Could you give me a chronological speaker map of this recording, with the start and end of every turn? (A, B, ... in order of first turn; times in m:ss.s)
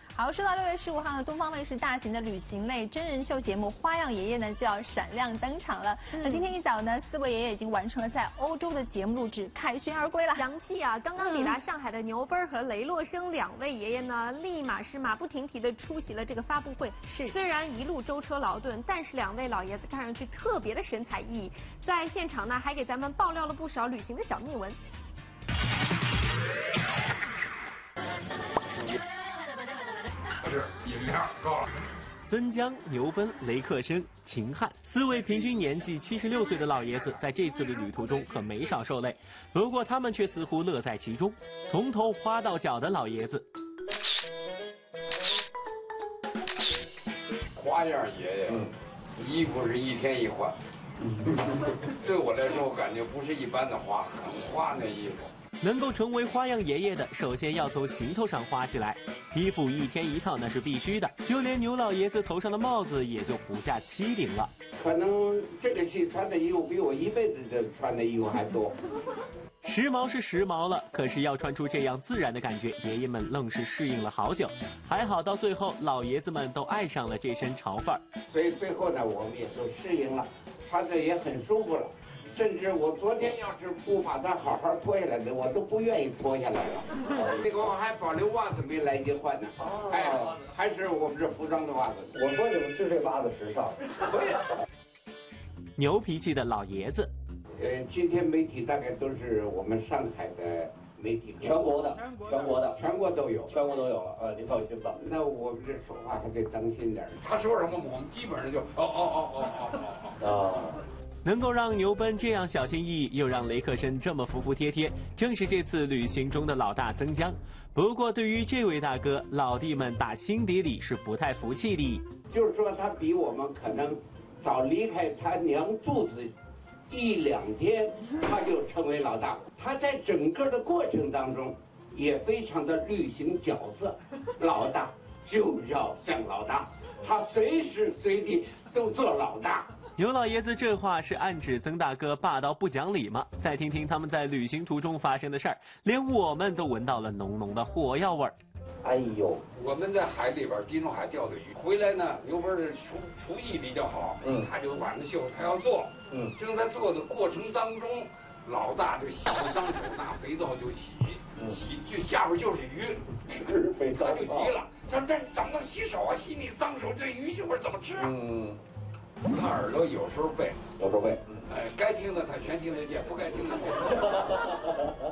0:00.1-0:10.5 A
0:10.4-0:24.8 B
0:11.2-0:11.6 A
0:17.1-0:17.4 A
0:30.4-0:31.7 C
0:32.3-0:43.4 D
0:47.6-0:50.6 C
0:51.6-0:55.3 C
0:55.6-1:04.5 D
1:04.8-1:08.7 E
1:09.6-1:18.0 D
1:18.3-1:32.1 E
1:27.1-1:27.4 F
1:29.6-1:30.4 F
1:32.1-1:34.3 F
1:35.8-1:37.1 D
1:37.6-1:41.9 E
1:41.4-1:42.8 F
1:42.5-1:43.6 E
1:43.5-1:45.0 F
1:44.9-1:47.2 E
1:47.2-1:50.2 C
1:50.2-1:50.8 F
1:51.2-2:02.0 D
2:02.3-2:06.3 E
2:06.9-2:19.7 E
2:20.0-2:28.3 D
2:28.8-2:29.4 F
2:29.5-2:48.1 C
2:34.2-2:34.5 F
2:43.3-2:44.5 F
2:48.0-2:48.6 F
2:49.2-2:50.6 C
2:50.8-2:51.4 F
2:51.5-2:54.4 C